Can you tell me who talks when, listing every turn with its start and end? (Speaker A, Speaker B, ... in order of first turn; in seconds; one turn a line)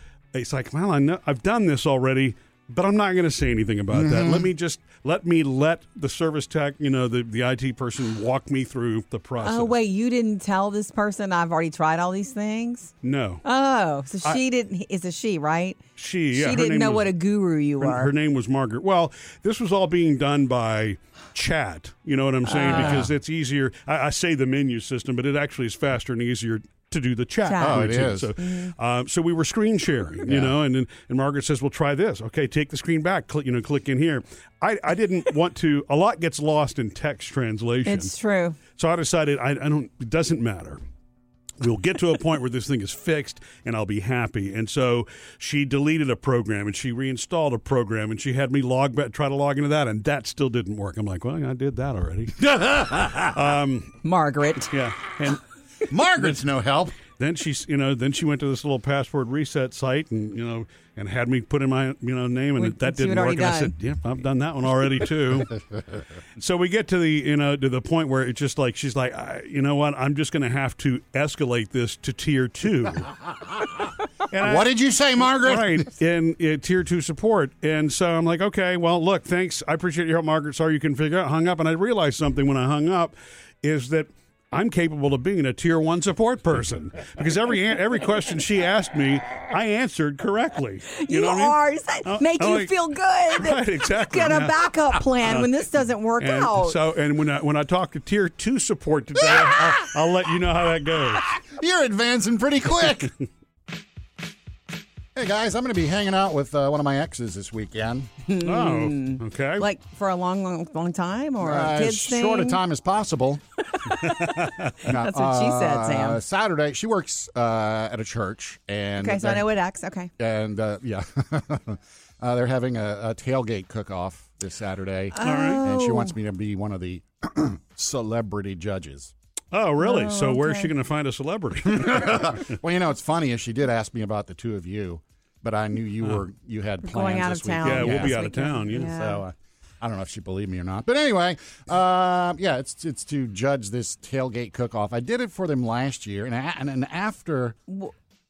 Speaker A: 0.3-9.7
Speaker B: 3.9-4.5
Speaker C: 9.4-12.9
Speaker A: 13.0-13.4
Speaker C: 13.4-18.1
Speaker A: 16.0-17.1
Speaker A: 17.8-38.1
Speaker C: 22.5-23.1
Speaker B: 22.7-23.1
Speaker C: 27.4-28.7
Speaker B: 27.6-28.3
Speaker B: 30.2-30.6
Speaker C: 37.9-38.6
Speaker A: 38.7-40.8
Speaker A: 41.6-54.0
Speaker B: 52.4-53.3
Speaker C: 54.0-54.7
Speaker A: 54.7-55.4
Speaker B: 55.9-57.0
Speaker A: 57.2-65.6
Speaker C: 62.6-63.7
Speaker A: 66.4-73.1
Speaker A: 74.3-92.7
Speaker B: 74.3-75.9
Speaker C: 91.0-96.8
Speaker A: 93.3-95.5
Speaker A: 96.2-101.3
Speaker B: 99.2-99.7
Speaker B: 101.4-103.1
Speaker B: 105.2-108.1
Speaker C: 108.3-112.6
Speaker A: 108.4-109.7
Speaker B: 111.4-113.4
Speaker C: 113.8-116.2
Speaker A: 114.0-114.8
Speaker B: 114.8-119.5
Speaker C: 119.0-120.1
Speaker B: 120.2-129.1
Speaker C: 125.1-126.1
Speaker A: 125.2-125.7
Speaker A: 129.5-132.6
Speaker C: 129.8-130.7
Speaker B: 131.7-138.2
Speaker C: 136.8-139.2
Speaker A: 137.6-138.9
Speaker B: 138.7-147.6